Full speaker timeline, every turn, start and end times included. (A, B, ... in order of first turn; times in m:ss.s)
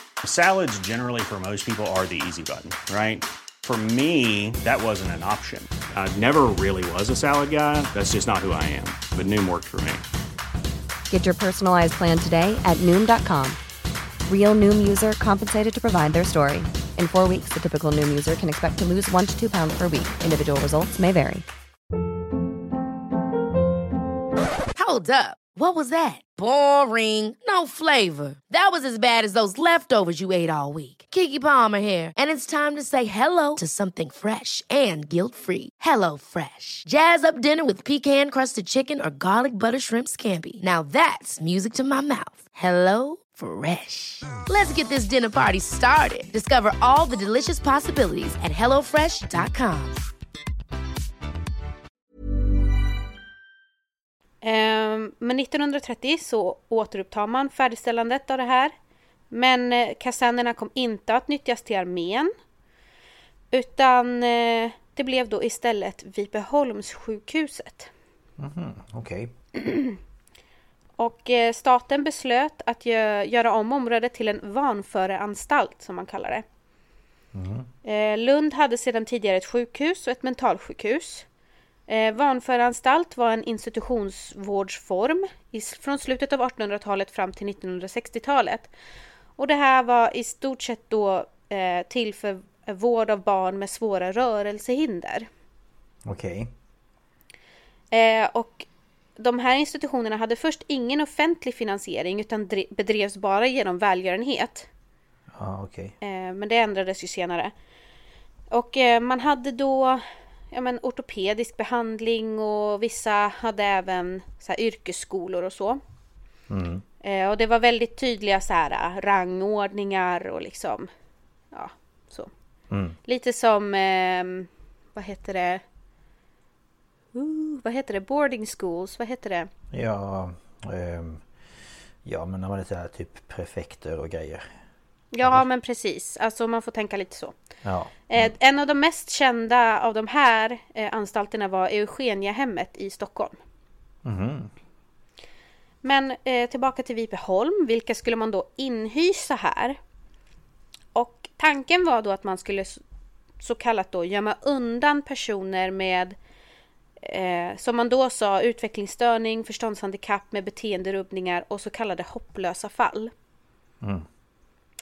0:00.2-0:10.0 A
0:11.1-0:13.6 B
0:14.2-0:21.4 B
0:24.7-0:50.0 C
0:54.4-0:58.7 D
0:59.3-1:02.3 D
1:03.5-1:07.9 D
1:08.4-1:09.7 E
1:11.0-1:16.4 D
1:17.3-1:17.7 E
1:17.8-1:21.2 D
1:21.9-1:28.7 D
1:29.4-1:35.3 D
1:36.0-1:36.5 E
1:37.9-1:38.6 D
1:39.2-1:44.7 D
1:45.3-1:45.9 E
1:46.0-1:47.5 D
1:48.5-1:55.8 D
1:56.5-1:56.8 E
1:57.0-2:00.9 D
2:01.5-2:02.3 D
2:02.7-2:03.0 E
2:03.0-2:05.6 D
2:07.1-2:09.5 D
2:09.7-2:11.2 E
2:12.0-2:14.5 E
2:15.1-2:17.3 D
2:17.6-2:18.3 E
2:18.1-2:23.4 D
2:24.0-2:24.5 E
2:25.8-2:29.8 D
2:30.9-2:32.8 D
2:33.4-2:36.2 D
2:37.0-2:43.1 D
2:43.8-2:44.1 E